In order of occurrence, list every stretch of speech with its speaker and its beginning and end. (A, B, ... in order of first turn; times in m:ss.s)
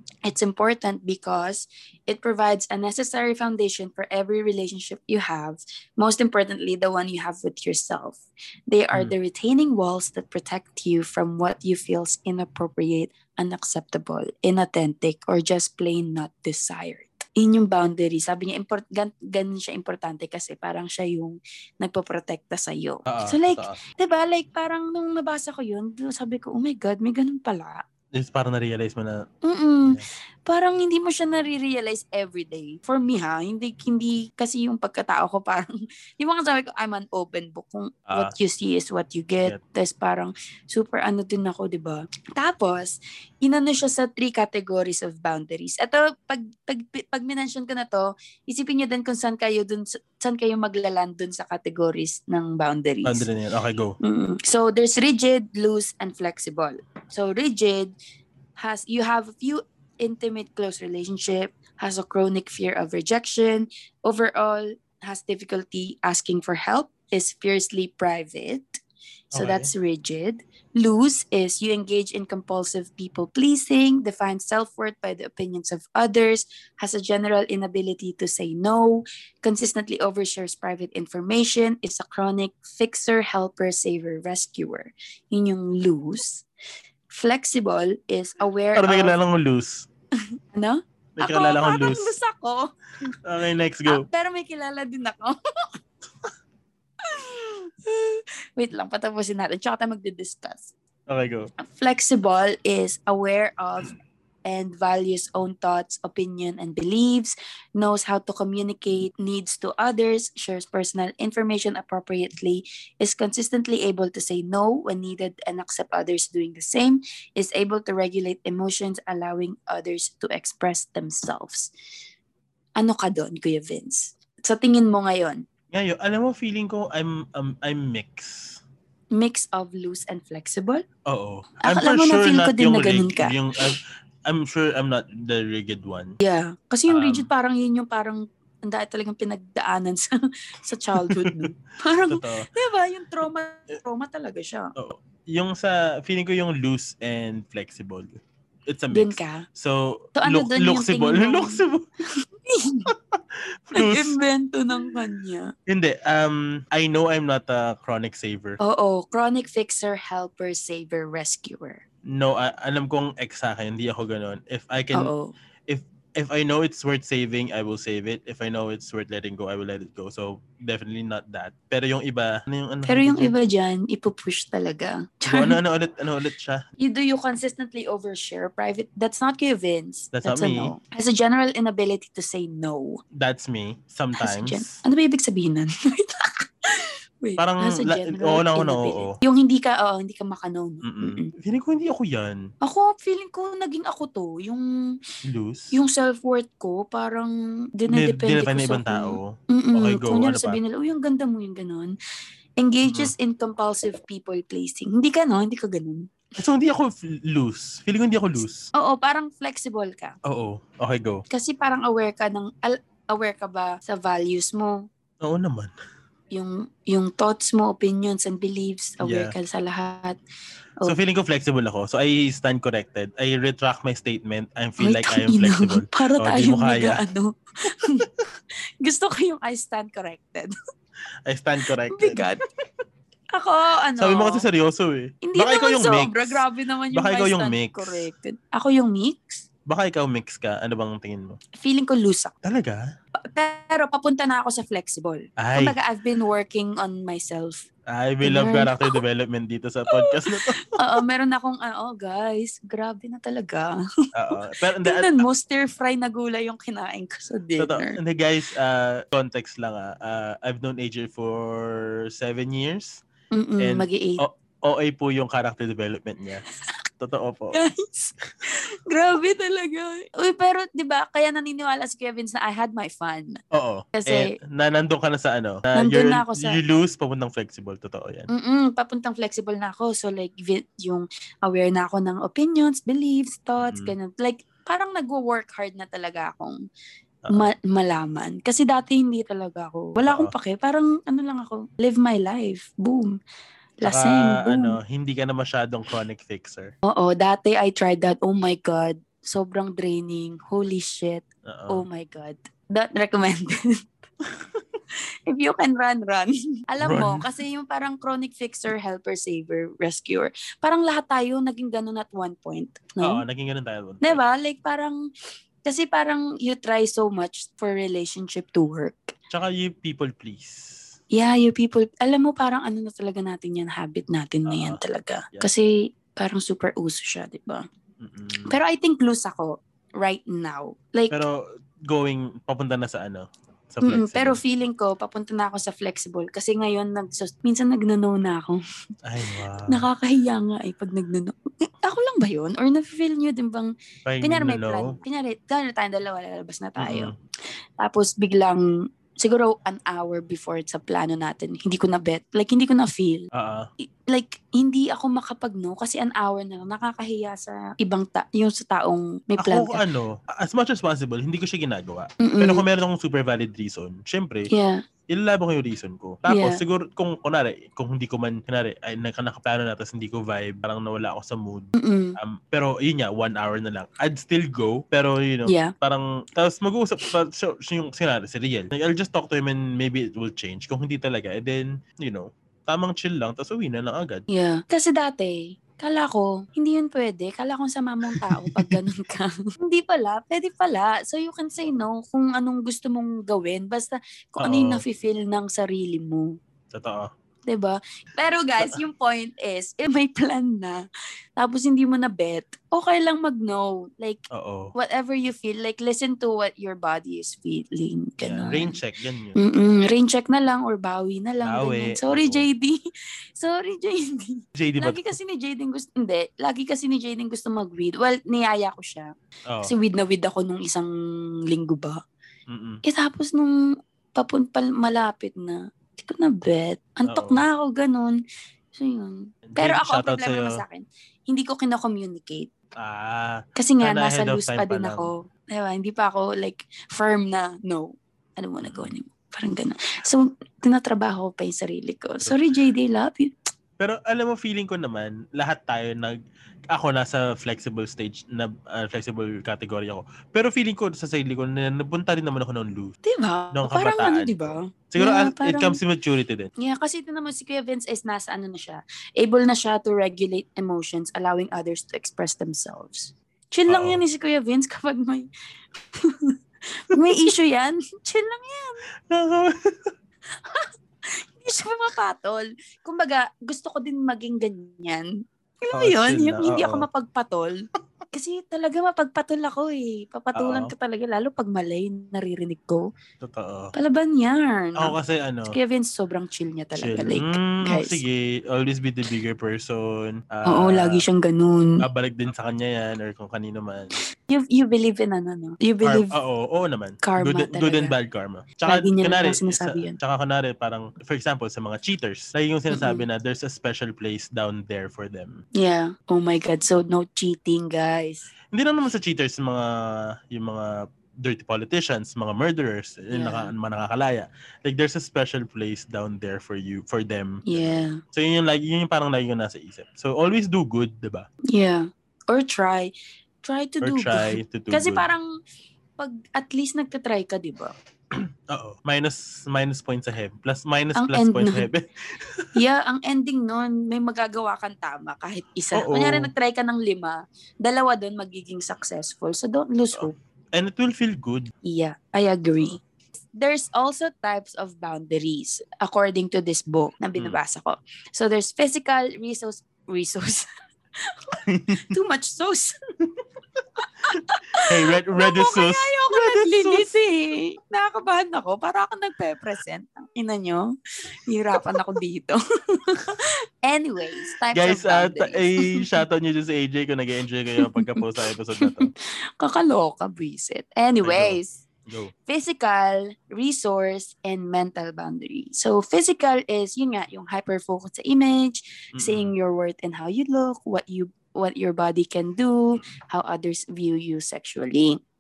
0:00.3-0:27.8 A
0:23.1-0:23.8 B
0:28.1-0:29.2 B
0:29.4-0:53.2 A
0:38.1-0:38.3 B
0:53.0-0:53.9 B
0:54.0-0:57.9 A
0:58.6-1:08.8 A
1:09.3-1:09.7 B
1:09.3-1:26.4 A
1:27.1-1:29.1 A
1:28.8-1:29.9 B
1:30.5-1:32.7 A
1:31.2-1:32.1 B
1:33.2-1:34.0 B
1:33.9-1:35.4 A
1:37.0-1:40.7 A
1:41.1-1:41.5 B
1:41.6-1:43.9 A
1:44.4-2:01.7 A
2:02.8-2:05.4 A
2:05.7-2:08.6 B
2:09.2-2:10.8 A
2:11.1-2:16.2 B
2:11.6-2:13.3 A
2:16.2-2:24.7 A
2:16.9-2:17.3 B
2:20.9-2:21.5 B
2:22.1-2:22.5 B
2:24.8-2:31.8 B
2:28.9-2:29.4 A
2:30.2-2:31.6 A
2:32.5-2:32.9 A
2:33.1-2:34.2 B
2:33.7-2:35.5 A
2:35.7-2:38.6 B
2:38.6-2:41.8 A
2:42.0-2:45.1 B
2:44.9-2:45.3 A
2:45.7-2:53.3 B
2:52.9-2:55.6 A
2:55.3-2:56.6 B
2:56.8-3:03.0 A
3:00.1-3:00.7 B
3:03.1-3:04.8 B
3:04.2-3:11.3 A
3:07.4-3:09.2 B
3:10.8-3:12.5 B
3:12.6-3:14.6 A
3:15.2-3:15.7 B
3:15.7-3:21.9 A
3:17.9-3:20.6 B
3:22.6-3:26.1 A
3:22.8-3:23.1 B
3:26.4-3:28.7 B
3:28.7-3:30.1 A
3:30.2-3:31.2 B
3:31.3-3:34.8 A
3:35.2-3:35.7 B
3:36.3-3:40.2 A
3:39.0-3:39.3 B
3:40.8-3:47.0 B
3:44.8-3:48.1 A
3:48.8-3:50.5 A
3:51.3-3:52.2 B
3:51.9-3:52.4 A
3:53.3-3:54.4 A
3:54.0-3:58.1 B
3:55.2-3:59.4 A
3:59.7-4:01.4 B
4:01.6-4:02.3 A
4:02.4-4:02.8 B
4:03.2-4:07.6 A
4:05.4-4:05.8 B
4:07.9-4:10.8 B
4:08.2-4:09.0 A
4:09.9-4:13.7 A
4:14.1-4:15.2 B
4:14.8-4:18.0 A
4:17.6-4:23.0 B
4:23.3-4:24.2 A
4:23.6-4:26.4 B
4:26.4-4:26.7 A
4:27.0-4:27.6 B
4:27.5-4:33.4 A
4:33.5-4:38.3 B
4:34.0-4:34.3 A
4:35.8-4:36.6 A
4:38.3-4:46.6 A
4:43.6-4:43.9 B
4:47.3-4:53.1 A
4:50.0-4:50.3 B
4:53.8-4:54.8 A
4:53.8-4:56.7 B
4:56.8-5:03.7 A
5:01.5-5:01.8 B
5:04.9-5:13.2 A
5:06.8-5:07.2 B
5:13.0-5:14.2 B
5:14.0-5:15.0 A
5:15.6-5:19.1 A
5:19.3-5:20.8 B
5:21.1-5:27.6 A
5:24.4-5:24.8 B
5:28.0-5:28.6 B
5:28.5-5:31.1 A
5:31.1-5:34.4 B
5:33.8-5:38.6 A
5:39.0-5:39.9 B
5:39.7-5:47.1 A
5:44.0-5:45.0 B
5:46.8-5:47.1 B
5:47.8-5:48.6 A
5:49.2-5:53.3 A
5:53.3-5:53.7 B
5:53.8-5:59.8 A
5:59.4-6:04.5 B
6:02.2-6:02.6 A
6:04.5-6:04.8 A
6:05.1-6:24.2 B
6:06.3-6:06.6 A
6:11.8-6:12.2 A
6:15.5-6:15.7 A
6:24.3-6:36.3 A
6:28.1-6:28.8 B
6:34.4-6:34.8 B
6:36.7-6:37.1 B
6:37.5-6:40.8 A
6:41.4-6:44.2 A
6:44.3-6:44.7 B
6:44.8-6:48.8 A
6:48.2-6:49.4 B
6:49.4-6:52.8 A
6:51.4-6:52.5 B
6:53.4-6:59.1 A
6:54.6-6:55.1 B
6:59.6-7:00.9 A
7:01.5-7:02.0 A
7:02.5-7:02.8 B
7:02.8-7:03.5 A
7:04.2-7:08.2 A
7:07.0-7:07.4 B
7:08.7-7:12.5 A
7:09.5-7:10.6 B
7:12.8-7:15.1 B
7:13.6-7:23.3 A
7:18.6-7:18.9 B
7:23.8-7:26.2 B
7:26.7-7:33.0 B
7:33.0-7:35.8 A
7:33.5-7:36.5 B
7:36.6-7:45.3 A
7:43.7-7:44.0 B
7:45.9-7:48.8 A
7:49.1-7:49.9 B
7:50.3-7:55.1 A
7:55.6-8:02.9 A
7:55.7-7:56.9 B
8:00.3-8:00.7 B
8:03.2-8:03.7 B
8:03.7-8:05.0 A
8:04.8-8:05.6 B
8:05.5-8:08.0 A
8:06.8-8:11.0 B
8:10.5-8:11.8 A
8:11.8-8:13.9 B
8:14.3-8:16.1 A
8:15.8-8:25.4 B
8:17.0-8:17.9 A
8:18.6-8:20.0 A
8:22.7-8:23.0 A
8:25.6-8:28.3 A
8:28.5-8:29.7 B
8:30.3-8:30.7 B
8:31.2-8:41.3 B
8:33.1-8:33.5 A
8:37.5-8:38.0 A
8:41.5-8:42.9 A
8:43.4-8:45.3 A
8:43.8-8:45.1 B
8:46.0-8:47.7 A
8:48.5-8:51.8 B
8:51.0-8:51.7 A
8:52.5-9:00.1 A
8:55.7-8:56.3 B
9:00.0-9:01.5 B
9:01.6-9:10.5 A
9:11.0-9:11.4 A
9:11.4-9:11.9 B
9:11.9-9:12.8 A
9:13.6-9:16.8 B
9:13.8-9:20.7 A
9:21.2-9:25.8 A
9:24.5-9:28.9 B
9:27.6-9:31.6 A
9:31.0-9:32.1 B
9:32.3-9:45.0 A
9:39.0-9:39.3 B